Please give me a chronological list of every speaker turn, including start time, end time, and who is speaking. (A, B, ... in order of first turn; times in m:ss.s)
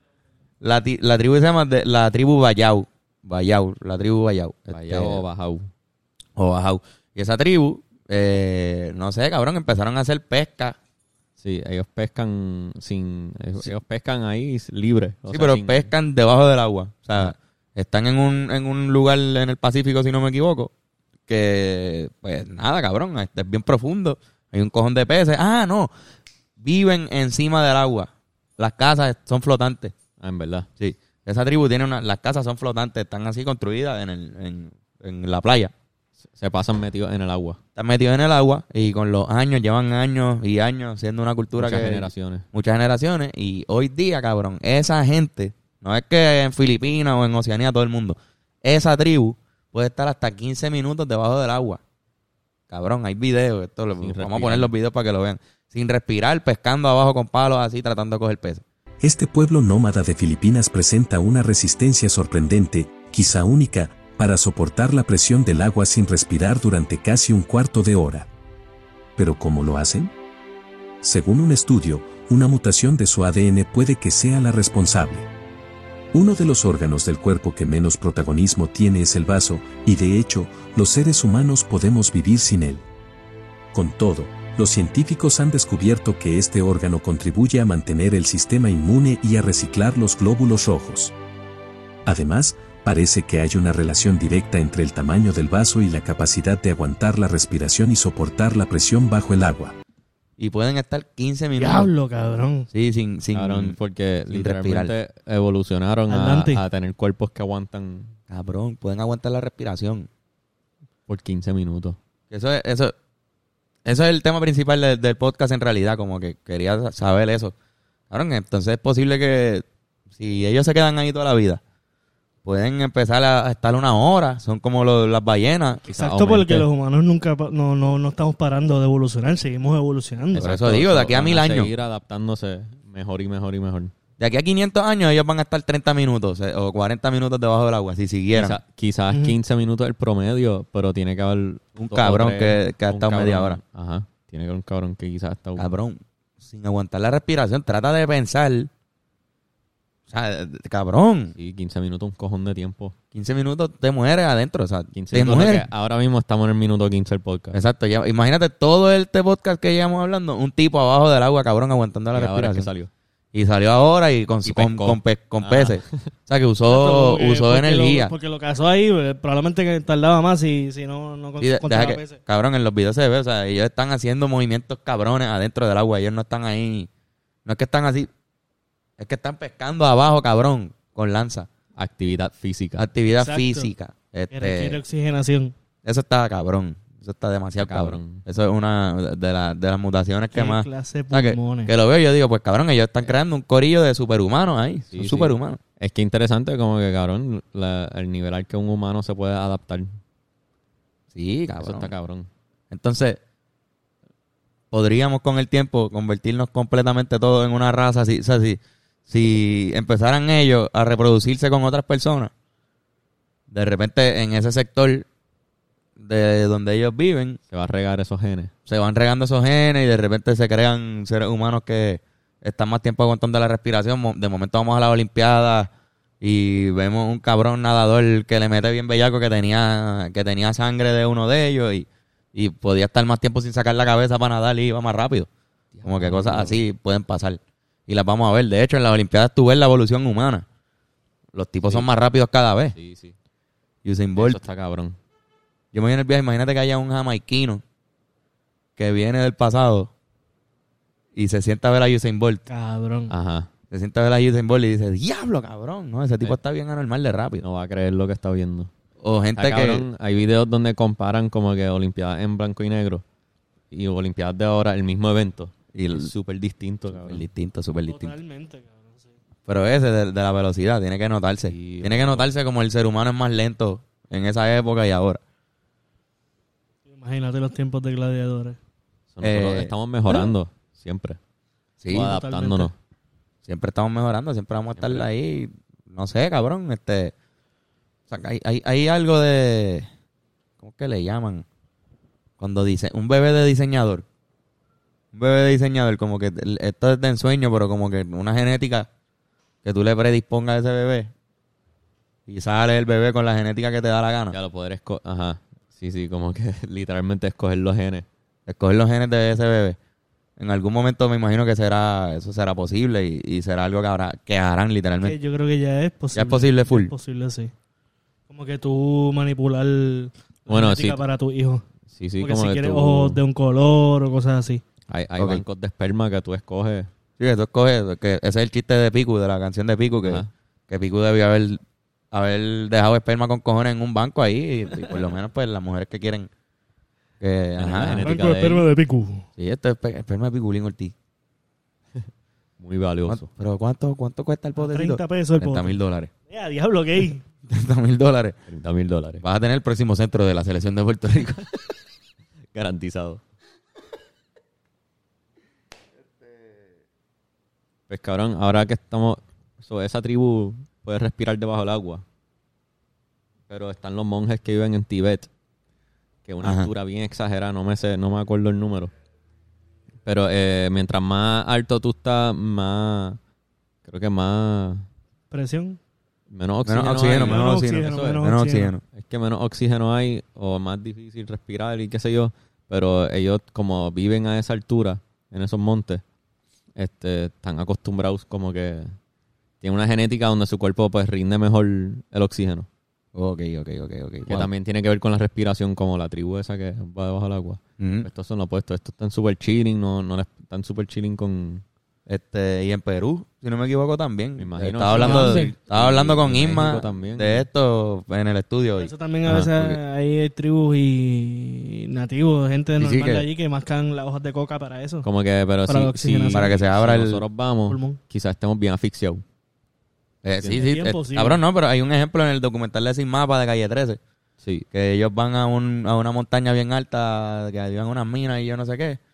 0:00.6-0:05.2 A
0:04.7-0:05.7 B
0:06.4-0:10.8 A
0:11.4-0:15.9 B
0:15.3-0:20.7 A
0:21.3-0:25.9 A
0:26.6-0:29.9 A
0:30.2-0:30.7 B
0:30.8-0:35.7 A
0:36.3-0:37.6 B
0:37.8-0:51.8 A
0:41.6-0:42.5 B
0:52.7-0:58.6 A
0:54.0-0:54.7 B
0:59.0-1:08.3 C
1:09.2-1:10.1 C
1:11.0-1:15.3 C
1:16.1-1:22.8 C
1:23.7-1:31.1 C
1:32.0-1:39.8 C
1:40.4-1:41.9 A
1:41.6-1:42.7 D
1:42.7-1:43.8 A
1:43.3-1:48.2 B
1:44.3-1:44.9 A
1:46.1-1:46.6 D
1:48.3-1:50.1 A
1:51.1-1:52.0 B
1:52.3-1:52.9 A
1:53.8-1:57.5 A
1:58.1-1:59.6 A
2:00.2-2:01.6 A
2:02.4-2:05.8 A
2:05.8-2:06.7 B
2:05.9-2:10.5 D
2:10.3-2:13.9 B
2:10.3-2:11.7 A
2:14.2-2:18.6 A
2:18.3-2:25.7 B
2:19.1-2:19.4 D
2:21.8-2:23.6 A
2:25.6-2:28.7 A
2:30.1-2:31.3 A
2:31.4-2:32.9 B
2:33.1-2:35.7 A
2:34.9-2:37.6 B
2:37.5-2:42.7 A
2:42.1-2:42.9 B
2:43.3-2:48.1 A
2:44.4-2:46.1 B
2:46.7-2:52.2 D
2:51.4-2:56.9 A
2:57.4-2:58.1 A
2:59.0-3:01.5 A
3:01.8-3:02.8 B
3:02.8-3:04.8 A
3:03.1-3:03.7 D
3:04.3-3:05.5 D
3:05.8-3:15.6 A
3:07.6-3:08.2 B
3:10.3-3:11.7 D
3:14.9-3:19.9 B
3:21.1-3:21.9 A
3:21.6-3:22.3 B
3:22.7-3:23.2 A
3:24.7-3:32.3 A
3:33.5-3:35.0 A
3:36.0-3:37.4 A
3:37.5-3:38.5 B
3:38.7-3:45.7 A
3:46.2-3:55.3 A
3:55.7-3:56.6 B
3:55.8-4:00.4 A
4:01.3-4:02.7 A
4:02.7-4:03.1 B
4:03.8-4:04.4 A
4:04.2-4:05.0 B
4:05.7-4:07.6 A
4:08.8-4:09.9 A
4:11.2-4:12.4 A
4:12.5-4:13.1 D
4:13.1-4:13.5 B
4:13.7-4:17.4 A
4:17.4-4:18.7 B
4:19.0-4:19.8 A
4:19.4-4:23.0 B
4:23.7-4:27.2 B
4:25.7-4:26.1 A
4:26.9-4:28.1 A
4:27.9-4:29.1 D
4:29.5-4:35.2 A
4:31.5-4:32.3 B
4:36.9-4:38.6 D
4:39.1-4:41.2 B
4:39.2-4:39.7 A
4:41.8-4:42.1 A
4:41.9-4:42.8 B
4:41.9-4:42.7 D
4:43.4-4:47.1 A
4:44.7-4:45.1 B
4:48.1-4:49.9 A
4:50.6-4:51.4 A
4:52.4-4:54.0 A
4:55.1-4:58.9 A
4:59.6-5:01.1 A
5:02.3-5:04.4 A
5:04.3-5:08.0 B
5:08.5-5:09.8 A
5:10.4-5:15.2 A
5:15.0-5:17.5 D
5:16.1-5:16.9 A
5:18.3-5:21.6 D
5:20.5-5:21.0 B
5:21.9-5:23.2 B
5:22.2-5:24.6 D
5:24.9-5:26.9 B
5:25.2-5:25.4 A
5:27.2-5:31.6 A
5:30.0-5:30.3 B
5:32.1-5:36.3 A
5:37.2-5:38.1 A
5:37.6-5:38.6 B
5:38.0-5:39.2 D
5:39.4-5:40.9 A
5:42.6-5:43.3 B
5:43.1-5:46.1 A
5:44.6-5:45.8 D
5:46.3-5:47.2 D
5:47.4-5:48.4 A
5:48.5-5:49.2 B
5:49.2-5:51.5 A
5:52.5-5:53.2 B
5:57.9-6:02.0 B
6:03.5-6:05.3 B
6:06.2-6:08.9 B
6:06.4-6:06.7 A
6:10.0-6:13.2 B
6:13.8-6:14.9 B
6:15.3-6:15.8 D
6:16.3-6:18.3 B
6:16.6-6:18.8 A
6:17.2-6:18.7 D
6:18.8-6:26.0 B
6:26.8-6:28.9 B
6:29.6-6:32.7 B
6:33.1-6:34.5 A
6:34.3-6:41.6 B
6:37.8-6:38.1 A
6:42.1-6:49.8 A
6:44.4-6:47.5 B
6:44.9-6:45.5 D
6:48.8-6:55.1 D
6:52.8-6:53.2 A
6:55.0-6:59.2 B
6:55.6-6:56.5 D
6:56.3-6:57.2 A
6:57.7-6:58.0 D
7:00.2-7:04.0 A
7:00.5-7:01.4 D
7:04.7-7:09.0 A